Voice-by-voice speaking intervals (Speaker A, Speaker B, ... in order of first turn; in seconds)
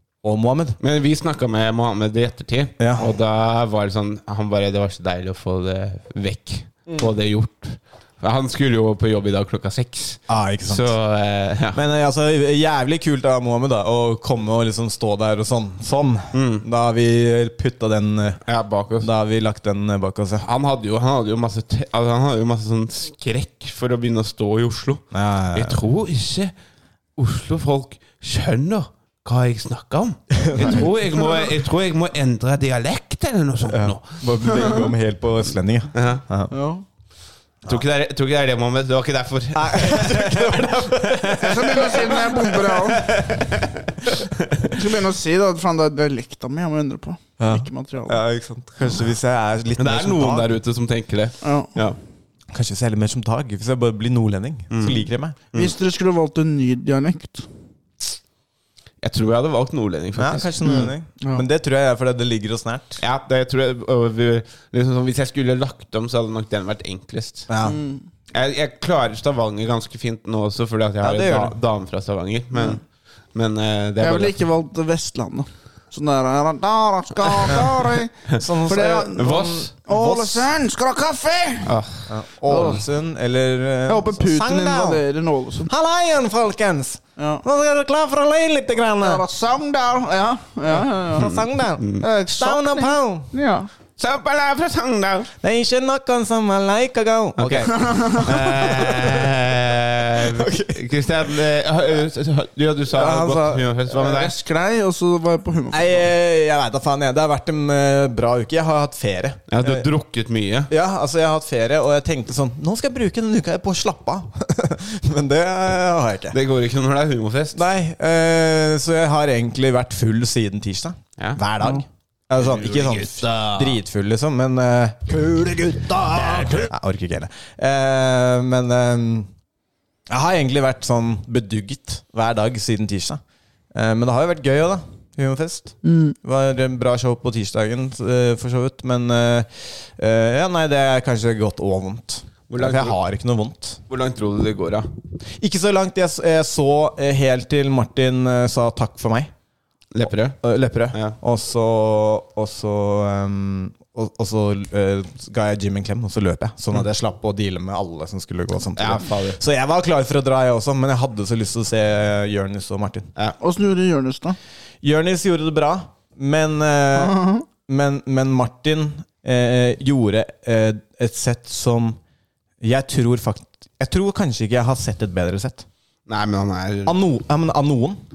Speaker A: 0.2-0.8, 2.8-3.1, 10.3-10.9, 11.7-18.4, 19.0-20.5, 25.1-25.8, 30.4-30.8, 33.7-36.5, 39.5-42.1, 47.4-50.5, 52.5-55.4, 60.2-63.0, 67.5-67.8, 71.0-71.6, 78.4-80.5, 82.1-85.0, 85.7-89.2, 90.7-93.3, 95.4-97.8, 98.6-99.2, 100.2-100.8, 105.7-109.9, 110.7-116.4, 117.5-129.3, 130.1-133.2, 133.7-143.8, 145.4-149.3, 150.4-163.1, 164.8-172.0, 172.6-175.7, 176.9-178.0
Speaker B: 0.8-11.8, 16.3-16.6, 18.5-19.1, 20.4-26.5, 27.2-34.7, 36.0-36.2, 37.7-44.7, 49.8-52.0, 54.7-55.7, 59.0-60.9, 63.0-67.5, 68.3-72.8, 73.3-74.4, 79.2-79.7, 81.7-82.1, 91.2-92.0, 94.0-95.3, 97.4-104.3, 109.5-110.7, 116.3-117.7, 122.4-123.8, 126.2-126.7, 142.5-143.0, 143.9-144.9, 149.9-150.4, 150.9-151.2, 158.8-159.4, 176.1-177.0
Speaker C: 36.5-36.8, 41.4-43.0, 44.7-48.2, 51.4-51.7, 55.5-57.5, 60.6-61.5, 67.7-68.0, 72.5-72.8, 74.0-78.2, 78.7-81.7, 82.5-82.8, 83.9-85.7, 87.2-87.4, 89.0-91.3, 92.0-93.7, 97.7-98.5, 102.9-106.1, 135.8-136.2, 163.4-164.4, 166.9-167.4